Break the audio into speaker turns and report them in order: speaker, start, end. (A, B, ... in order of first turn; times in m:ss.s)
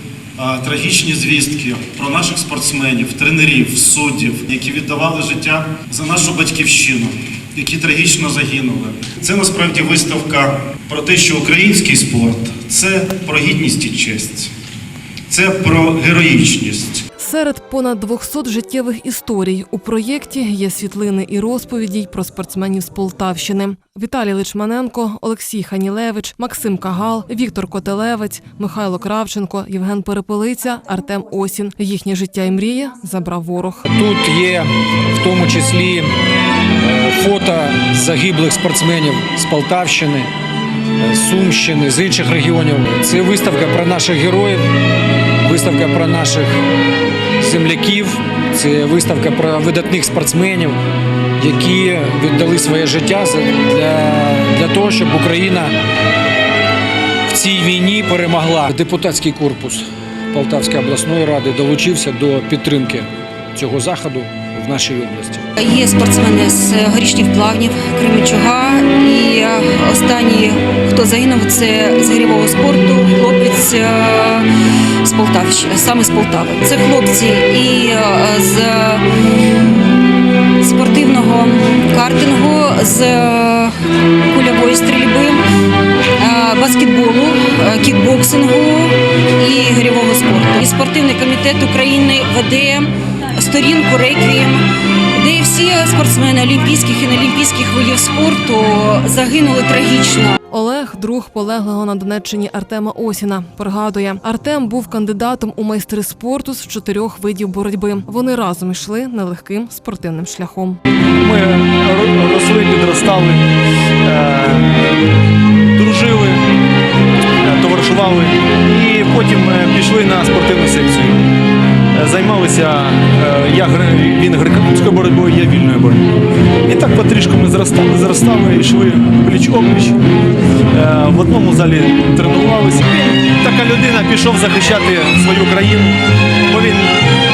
0:00.4-0:14.5 A
0:15.3-0:17.0 A
0:17.2-0:33.9 B
0:33.9-0:36.1 C
0:36.8-0:40.3 C
0:41.0-0:44.7 C
0:45.4-0:46.6 C
0:47.4-0:50.8 C
0:51.4-0:55.7 C
0:57.3-1:05.5 C
1:05.6-1:14.5 D
1:15.0-1:19.0 D
1:20.6-1:23.7 D
1:24.3-1:25.4 D
1:26.2-1:34.6 D
1:35.2-1:40.4 D
1:40.5-1:50.8 B
1:51.2-1:53.4 E
1:54.0-1:54.7 E
1:55.7-1:56.4 E
1:57.4-2:01.2 E
2:01.9-2:06.1 E
2:06.6-2:10.0 E
2:10.7-2:17.0 E